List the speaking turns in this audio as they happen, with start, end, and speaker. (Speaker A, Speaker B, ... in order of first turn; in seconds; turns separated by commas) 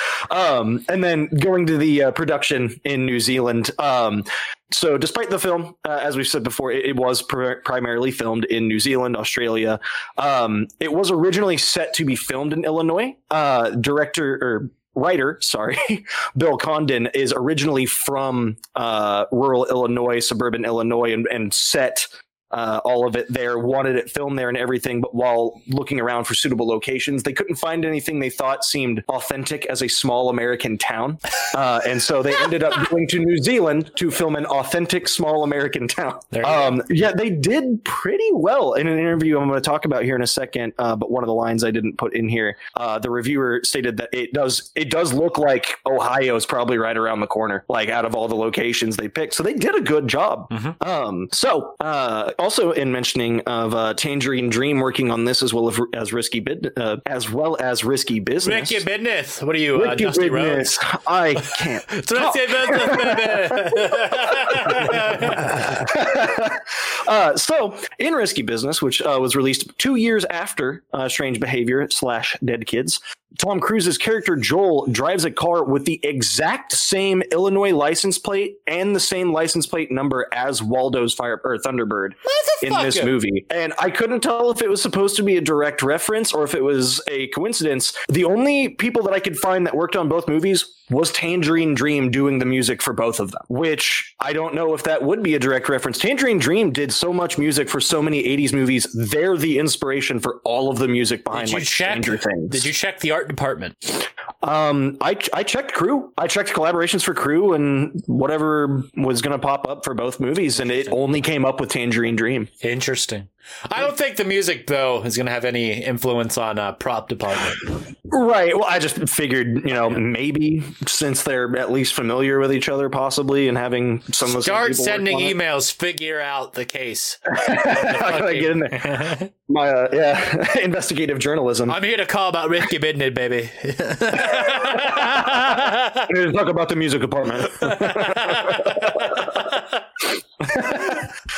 Speaker A: 0.3-58.8, Speaker B: 36.3-36.8, Speaker B: 50.5-50.8, Speaker B: 58.4-60.7, Speaker A: 59.8-102.7, Speaker B: 61.9-65.5, Speaker B: 82.2-83.1, Speaker B: 101.3-103.8, Speaker A: 104.4-112.5, Speaker B: 110.5-111.0, Speaker B: 112.6-117.7, Speaker A: 118.1-125.3, Speaker B: 124.2-129.3, Speaker A: 127.3-131.8, Speaker B: 131.7-136.1, Speaker A: 134.5-135.4, Speaker A: 136.1-139.4, Speaker B: 137.7-139.0, Speaker A: 140.4-141.1